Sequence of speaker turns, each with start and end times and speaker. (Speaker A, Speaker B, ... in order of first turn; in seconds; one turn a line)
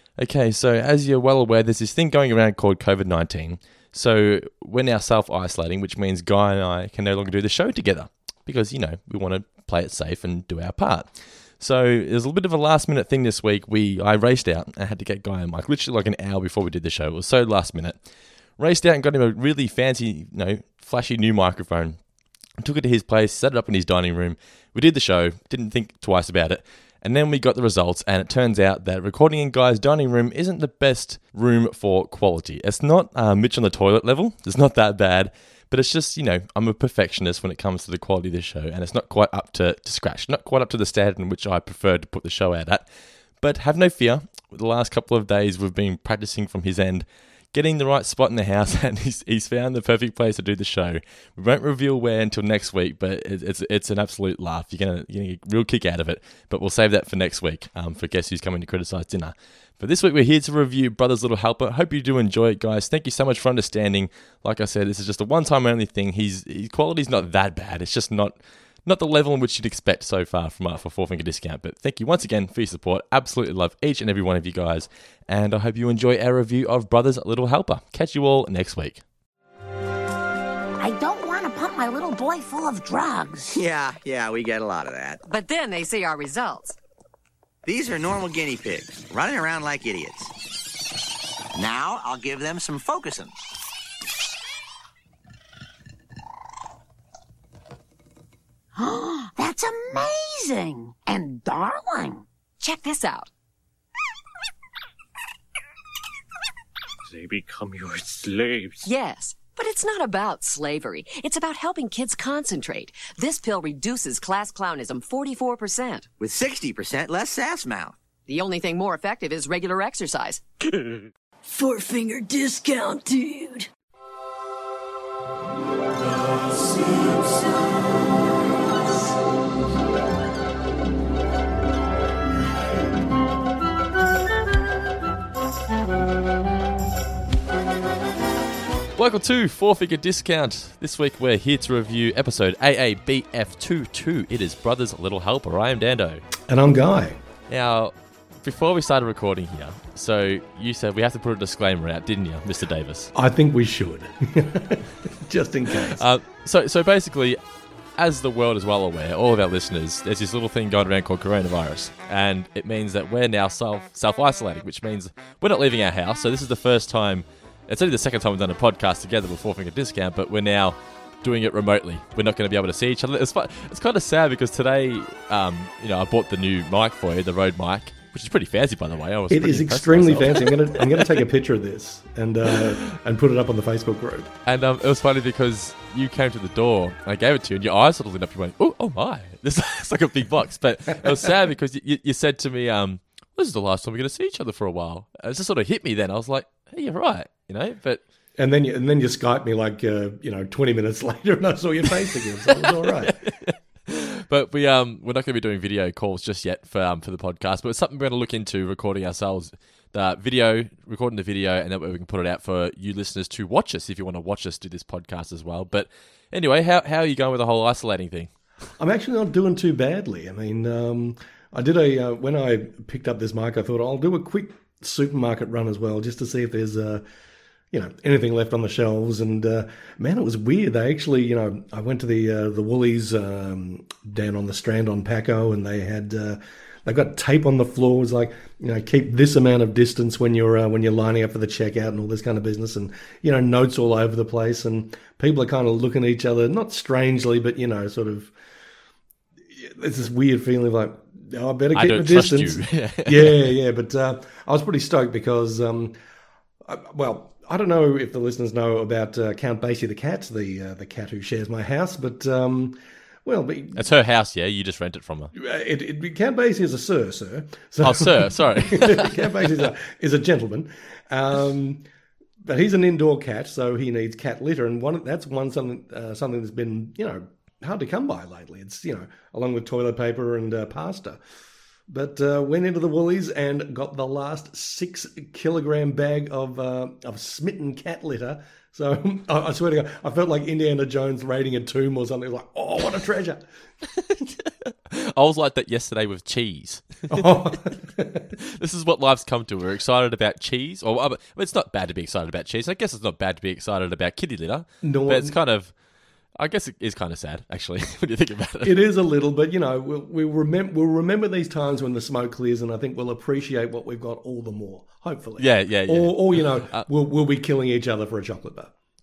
Speaker A: 0.2-18.0
Speaker A: 18.6-22.0
Speaker A: 22.6-42.9
Speaker A: 43.4-79.0
Speaker B: 80.8-83.5
Speaker C: 83.5-85.2
Speaker D: 85.2-86.8
Speaker C: 87.6-90.3
Speaker C: 91.5-93.4
Speaker B: 98.7-102.2
Speaker D: 102.6-103.3
Speaker E: 107.1-108.9
Speaker D: 108.8-116.1
Speaker C: 116.2-118.0
Speaker D: 118.3-120.4
Speaker E: 120.7-121.1
Speaker F: 121.5-123.7
Speaker A: 139.0-146.2
Speaker G: 146.5-147.2
Speaker A: 147.5-153.1
Speaker G: 153.1-156.0
Speaker A: 155.9-157.4
Speaker A: 158.0-180.6
Speaker G: 179.3-184.3
Speaker A: 184.4-198.0
Speaker G: 198.4-203.2
Speaker A: 202.4-218.3
Speaker G: 218.8-227.0
Speaker G: 227.7-248.3
Speaker G: 249.5-255.9
Speaker A: 251.7-253.5
Speaker G: 256.6-263.8
Speaker A: 263.7-265.3
Speaker G: 265.3-271.8
Speaker A: 267.8-269.7
Speaker G: 272.4-281.2
Speaker G: 281.9-293.4
Speaker A: 294.0-297.4
Speaker G: 297.1-298.3
Speaker A: 298.4-305.7
Speaker G: 304.8-305.4
Speaker A: 306.4-308.8
Speaker G: 308.6-318.7
Speaker A: 315.4-316.9